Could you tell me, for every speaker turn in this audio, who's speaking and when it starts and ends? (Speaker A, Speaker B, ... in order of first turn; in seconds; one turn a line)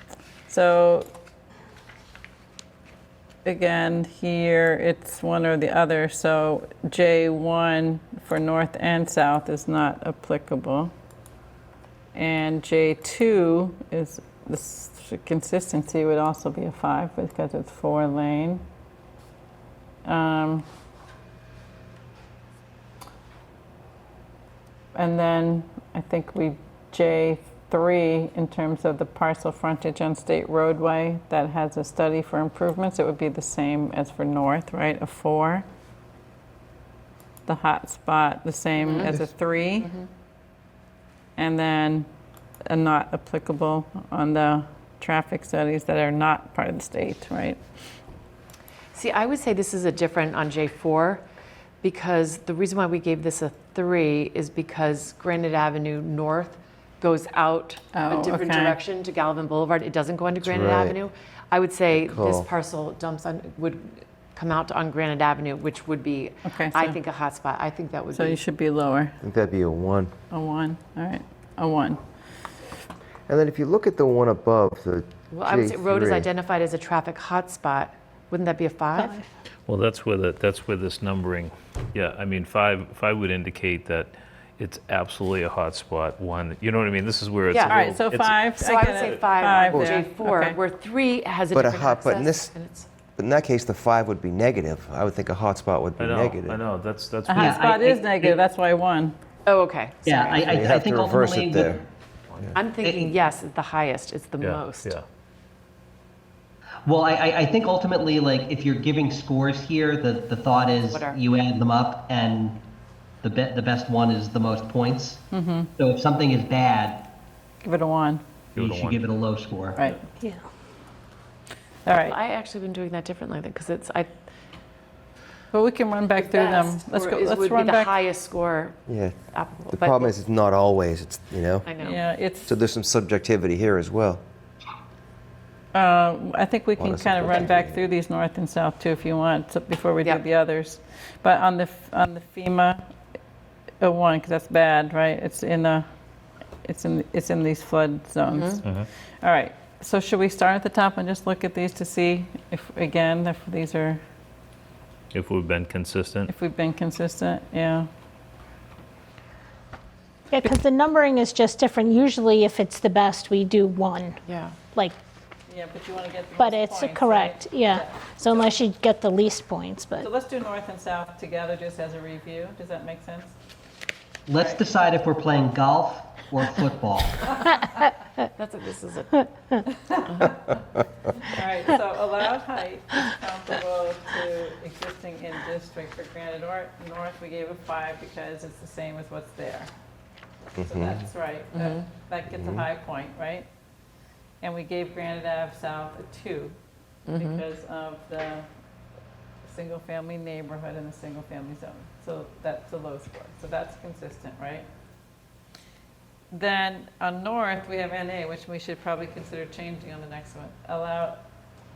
Speaker A: 0.5-1.1
Speaker A: 3.5-10.9
Speaker A: 12.1-18.6
Speaker A: 20.1-20.6
Speaker A: 24.9-35.7
Speaker A: 37.5-39.9
Speaker B: 38.8-39.2
Speaker B: 39.8-40.1
Speaker A: 41.4-42.1
Speaker A: 42.7-47.6
Speaker B: 48.9-51.2
Speaker B: 51.8-68.4
Speaker A: 57.9-58.8
Speaker C: 60.4-61.0
Speaker C: 61.9-62.5
Speaker A: 66.5-67.0
Speaker A: 68.1-69.2
Speaker C: 69.2-70.1
Speaker A: 70.3-72.0
Speaker C: 73.3-76.3
Speaker B: 75.3-79.2
Speaker D: 79.0-79.2
Speaker E: 79.7-88.5
Speaker B: 87.5-87.9
Speaker A: 87.7-90.6
Speaker B: 88.5-92.9
Speaker C: 89.7-90.0
Speaker C: 91.5-92.5
Speaker C: 93.2-96.6
Speaker E: 96.0-97.6
Speaker A: 97.3-99.2
Speaker F: 97.3-98.4
Speaker B: 99.5-100.5
Speaker F: 100.1-101.8
Speaker C: 100.5-101.8
Speaker B: 102.5-105.0
Speaker F: 102.8-103.2
Speaker E: 104.4-105.0
Speaker F: 106.8-112.6
Speaker B: 110.8-111.2
Speaker F: 113.2-115.3
Speaker A: 115.3-115.7
Speaker F: 115.8-117.1
Speaker A: 117.6-118.2
Speaker E: 118.5-119.0
Speaker F: 118.5-119.8
Speaker A: 119.8-120.0
Speaker A: 121.9-122.2
Speaker B: 121.9-124.2
Speaker A: 125.5-128.0
Speaker B: 126.2-130.1
Speaker C: 128.9-131.7
Speaker B: 131.7-132.0
Speaker A: 131.8-132.5
Speaker C: 132.5-134.2
Speaker A: 135.7-142.9
Speaker C: 136.8-137.8
Speaker A: 143.8-145.9
Speaker A: 146.6-148.6
Speaker B: 148.3-148.6
Speaker E: 148.6-148.9
Speaker A: 149.2-154.0
Speaker E: 155.1-156.3
Speaker A: 156.3-157.9
Speaker D: 160.3-164.2
Speaker B: 164.3-164.6
Speaker A: 165.5-168.6
Speaker D: 166.4-170.1
Speaker A: 170.0-173.4
Speaker F: 174.3-177.4
Speaker B: 178.3-179.3
Speaker A: 179.8-180.3
Speaker B: 180.0-180.5
Speaker A: 181.2-189.7
Speaker C: 190.6-191.1
Speaker A: 190.6-193.5
Speaker B: 191.6-191.8
Speaker C: 192.3-192.7
Speaker A: 194.4-196.6
Speaker B: 197.1-197.4
Speaker A: 197.2-198.5
Speaker A: 199.4-204.7
Speaker A: 206.3-211.2